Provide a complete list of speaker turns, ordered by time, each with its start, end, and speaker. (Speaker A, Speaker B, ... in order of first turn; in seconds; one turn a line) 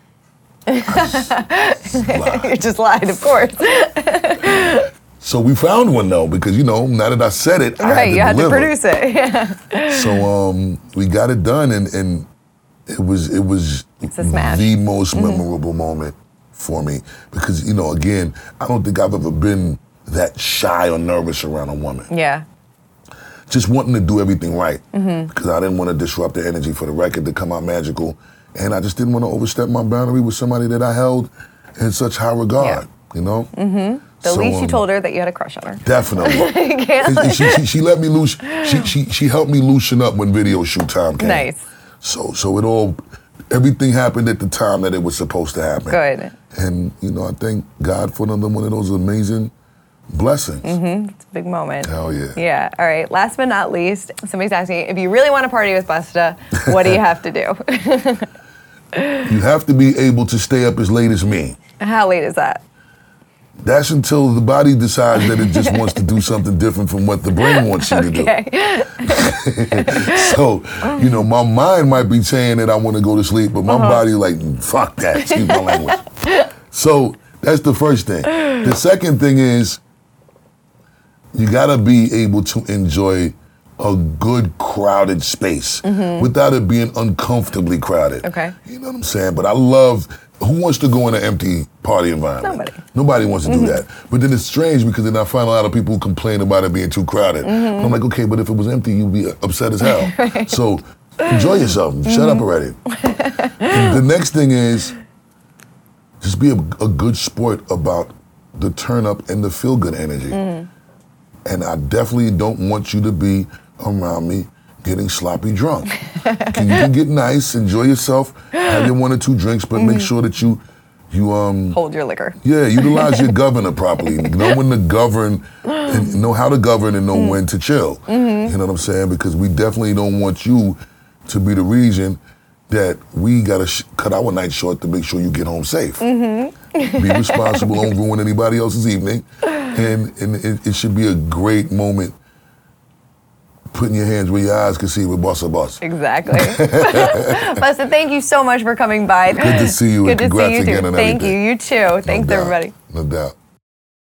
Speaker A: 0.7-4.9
Speaker B: 1.9-2.6
Speaker B: 5.2-8.8
Speaker A: 7.8-10.2
Speaker B: 9.9-12.3
Speaker B: 12.9-22.1
Speaker A: 14.0-15.4
Speaker A: 22.1-22.4
Speaker B: 23.5-33.5
Speaker A: 24.9-25.3
Speaker A: 32.6-32.8
Speaker A: 33.5-37.6
Speaker B: 34.2-34.8
Speaker B: 35.8-43.0
Speaker A: 38.4-38.9
Speaker A: 41.2-41.6
Speaker B: 43.5-49.5
Speaker A: 45.9-46.3
Speaker B: 50.1-50.8
Speaker A: 50.6-58.3
Speaker B: 51.8-52.4
Speaker B: 56.7-57.0
Speaker A: 58.9-59.2
Speaker B: 59.2-61.6
Speaker A: 61.8-62.6
Speaker B: 63.6-68.3
Speaker A: 65.2-66.0
Speaker A: 67.3-69.3
Speaker B: 69.1-76.1
Speaker A: 69.8-70.3
Speaker A: 70.8-71.1
Speaker A: 73.7-74.0
Speaker A: 75.2-76.3
Speaker B: 76.7-79.8
Speaker B: 81.3-102.8
Speaker A: 85.8-86.3
Speaker A: 88.2-88.5
Speaker A: 92.4-92.8
Speaker A: 93.5-93.8
Speaker A: 97.4-97.9
Speaker A: 99.8-100.5
Speaker A: 102.0-102.4
Speaker A: 103.0-103.8
Speaker B: 103.6-105.0
Speaker B: 106.2-110.5
Speaker A: 110.3-110.7
Speaker B: 111.4-121.8
Speaker A: 119.8-120.1
Speaker A: 121.7-123.3
Speaker B: 122.4-136.0
Speaker A: 124.0-124.5
Speaker A: 127.1-127.4
Speaker A: 128.1-128.5
Speaker A: 136.0-137.7
Speaker B: 136.9-142.1
Speaker B: 143.7-147.4
Speaker A: 145.8-152.7
Speaker B: 149.3-151.4
Speaker B: 152.0-153.3